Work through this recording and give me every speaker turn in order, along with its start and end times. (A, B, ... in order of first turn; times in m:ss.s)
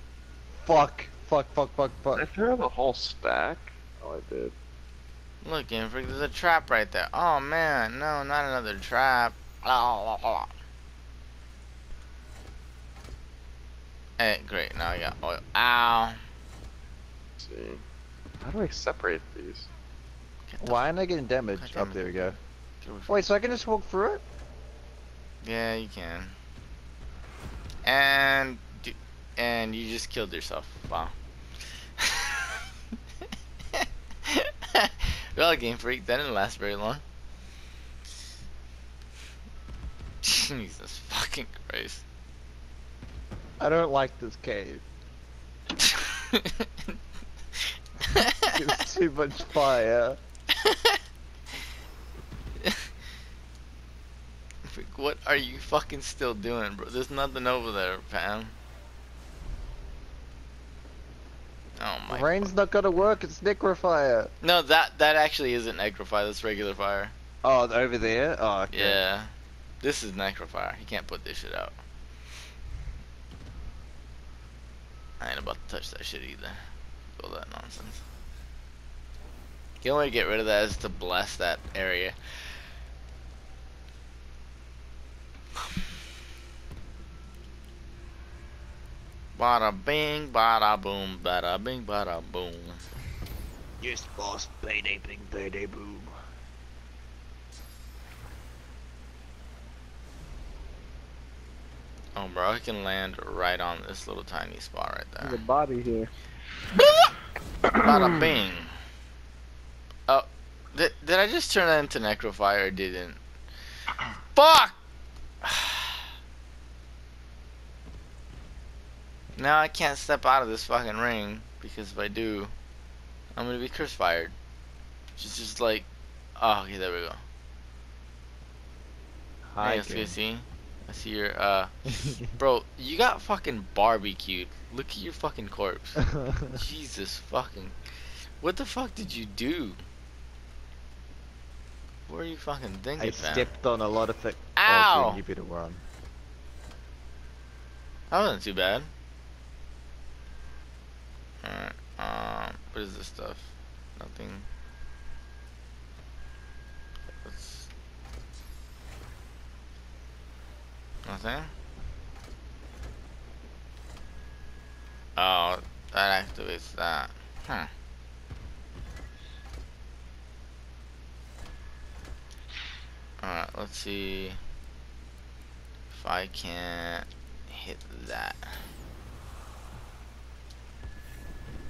0:00.6-0:02.2 A
0:02.1-0:04.5 B
0:05.4-0:10.5 C
0:14.2-0:16.2 C
0:17.4-0:17.8 B
0:18.4-0:19.7 B
0:20.5-0:20.8 C
0:20.6-0:22.4 A
0:21.5-0:23.2 C
0:23.1-0:24.2 A
0:25.4-0:26.3 C
0:27.8-0:31.1 C
0:32.0-0:32.6 C
0:33.7-0:37.0 C
0:40.2-0:42.0 C
0:43.6-0:44.8 A
0:45.8-0:46.7 C
0:48.1-0:48.5 C
0:48.4-0:50.2 A
0:50.5-0:51.0 C
0:52.6-0:52.9 C
0:54.6-0:58.5 C
1:01.8-1:02.5 C
1:02.1-1:04.3 A
1:04.4-1:07.1 C
1:07.4-1:09.0 A
1:08.7-1:11.7 C
1:15.2-1:16.6 C
1:17.2-1:18.0 C
1:19.8-1:22.2 C
1:29.4-1:32.8 C
1:33.8-1:36.1 A
1:42.2-1:45.4 C
1:45.2-1:46.1 A
1:46.7-1:47.1 C
1:47.7-1:48.7 C
1:50.1-1:53.2 C
1:54.3-1:54.8 C
1:55.4-1:55.9 C
1:59.4-2:02.5 C
2:03.3-2:04.3 C
2:05.2-2:07.2 C
2:09.5-2:10.1 A
2:09.6-2:17.8 C
2:16.0-2:16.5 A
2:18.4-2:19.8 C
2:22.1-2:23.5 C
2:23.0-2:25.8 A
2:24.6-2:25.2 C
2:28.1-2:28.9 C
2:31.4-2:34.5 C
2:37.2-2:37.7 C
2:41.0-2:41.5 C
2:45.2-2:47.7 C
2:53.2-2:54.4 C
2:55.9-2:58.5 C